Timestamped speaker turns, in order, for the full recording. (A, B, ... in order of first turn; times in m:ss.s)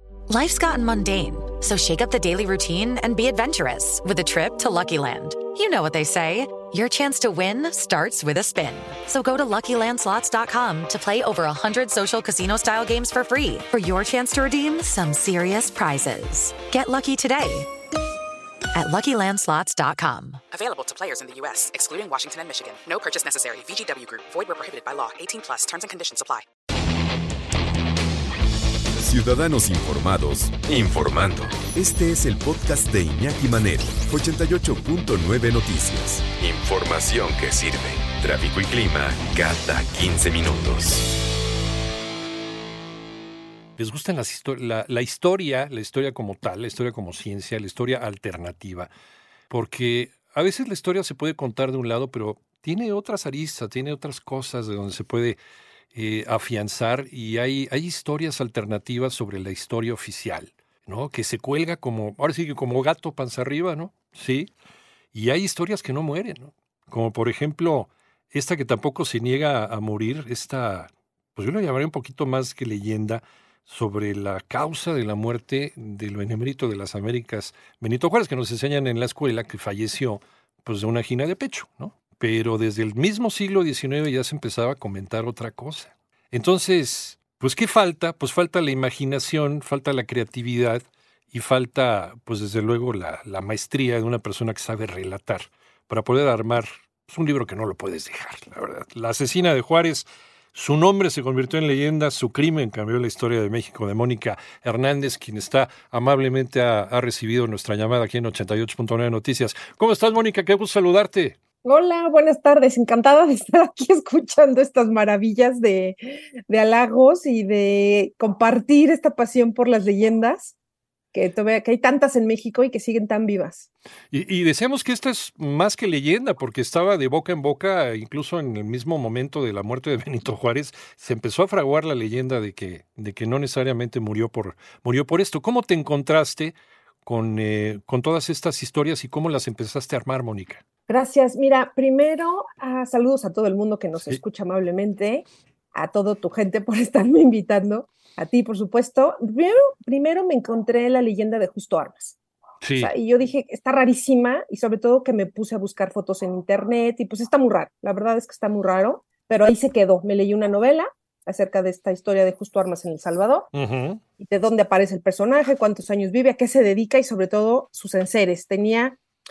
0:00.3-0:17.7 A
0:18.7-0:20.4 A
0:20.5-0:26.4 B
0:29.0-0:41.1 C
0:43.8-0:48.9 D
0:49.5-0:55.4 D
0:55.9-1:04.5 D
1:05.1-1:51.4 D
1:51.6-2:00.5 E
2:01.1-2:03.7 E
2:04.1-2:20.6 D
2:20.9-2:32.2 E
2:24.0-2:24.2 D
2:32.6-2:32.9 D
2:32.8-2:43.5 E
2:43.5-2:44.0 D
2:44.2-2:49.0 E